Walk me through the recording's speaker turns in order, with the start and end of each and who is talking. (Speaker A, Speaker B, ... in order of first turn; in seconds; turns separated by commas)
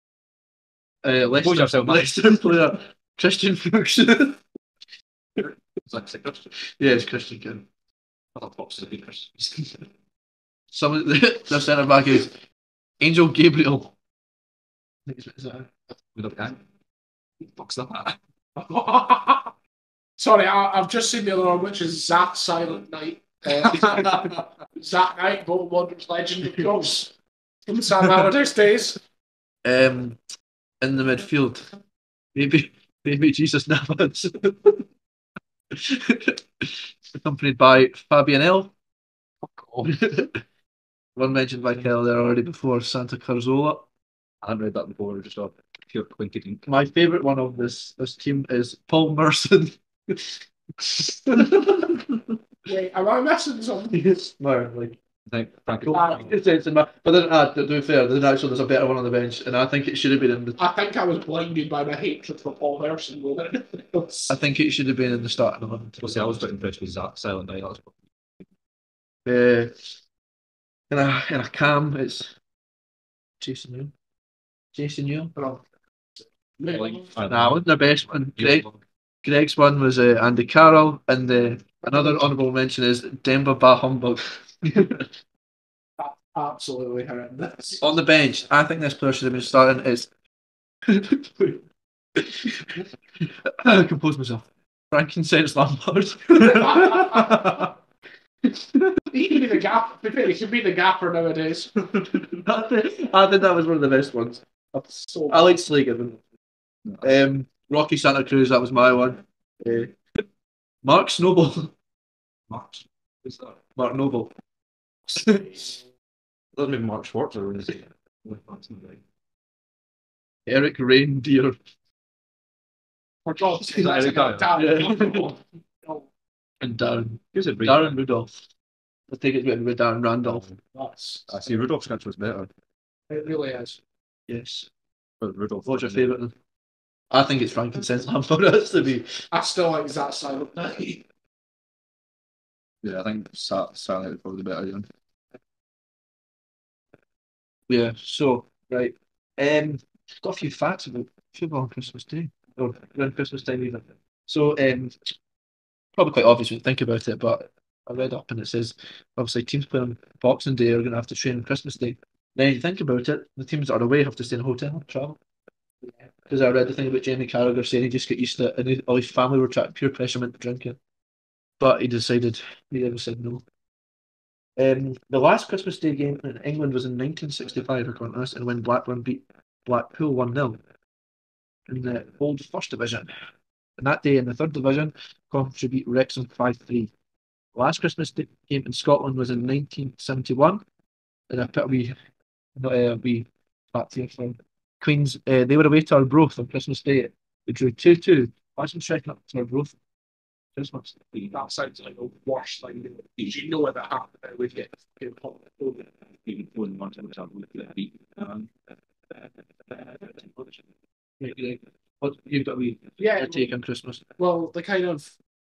Speaker A: 1.0-4.4, Speaker B: 1.4-2.5, Speaker B: 5.8-6.5, Speaker A: 6.8-7.7, Speaker B: 8.3-9.8, Speaker A: 10.7-12.3, Speaker A: 13.0-13.9, Speaker A: 15.1-15.7, Speaker B: 16.1-16.6, Speaker B: 17.4-18.2, Speaker C: 18.6-19.5, Speaker C: 20.2-27.1, Speaker B: 23.6-24.4, Speaker C: 27.7-29.0, Speaker A: 29.6-30.2, Speaker A: 30.8-31.7, Speaker A: 32.4-34.8, Speaker A: 35.7-38.7, Speaker C: 39.5-39.9, Speaker A: 39.9-40.4, Speaker A: 41.2-43.9, Speaker B: 44.4-46.6, Speaker A: 46.7-52.3, Speaker C: 52.7-54.0, Speaker A: 53.9-55.0, Speaker B: 55.3-56.3, Speaker A: 55.8-60.6, Speaker C: 55.9-56.3, Speaker C: 60.6-64.4, Speaker A: 64.3-66.5, Speaker B: 66.0-67.9, Speaker A: 69.2-69.7, Speaker A: 70.9-72.3, Speaker A: 73.4-73.9, Speaker A: 74.7-75.4, Speaker C: 75.3-75.6, Speaker C: 76.6-77.1, Speaker B: 76.7-77.6, Speaker A: 77.3-78.7, Speaker B: 78.4-78.8, Speaker A: 79.2-85.1, Speaker C: 81.9-82.2, Speaker C: 86.0-87.9, Speaker A: 87.8-90.1, Speaker A: 90.9-91.6, Speaker A: 92.2-97.6, Speaker C: 96.5-97.4, Speaker A: 98.5-98.9, Speaker C: 99.1-101.8, Speaker A: 102.3-106.2, Speaker C: 105.1-105.6, Speaker B: 106.8-107.2, Speaker A: 107.0-110.0, Speaker A: 110.8-111.7, Speaker B: 112.5-113.6, Speaker A: 113.8-114.3, Speaker A: 115.1-115.8, Speaker B: 116.6-119.0, Speaker A: 120.5-121.6, Speaker C: 123.3-126.1, Speaker B: 123.8-124.5, Speaker A: 124.5-125.3, Speaker A: 126.6-128.4, Speaker B: 127.3-128.0, Speaker A: 129.1-130.4, Speaker B: 130.2-130.6, Speaker C: 130.7-131.6, Speaker B: 131.3-132.5, Speaker C: 133.1-133.8, Speaker A: 134.3-134.7, Speaker B: 135.2-136.1, Speaker A: 135.7-136.3, Speaker A: 137.1-139.2, Speaker C: 139.3-141.0, Speaker B: 142.8-144.9, Speaker A: 147.7-155.1, Speaker A: 156.0-165.2, Speaker A: 166.3-170.8, Speaker A: 171.6-173.4, Speaker A: 174.6-180.6, Speaker A: 181.7-183.1, Speaker A: 183.8-186.9, Speaker A: 187.5-190.6, Speaker A: 191.3-191.9, Speaker A: 192.6-199.8, Speaker A: 200.6-201.3, Speaker C: 201.3-205.9, Speaker B: 206.2-208.5, Speaker B: 209.7-210.6, Speaker A: 211.2-214.0, Speaker C: 213.0-213.5, Speaker C: 214.2-215.2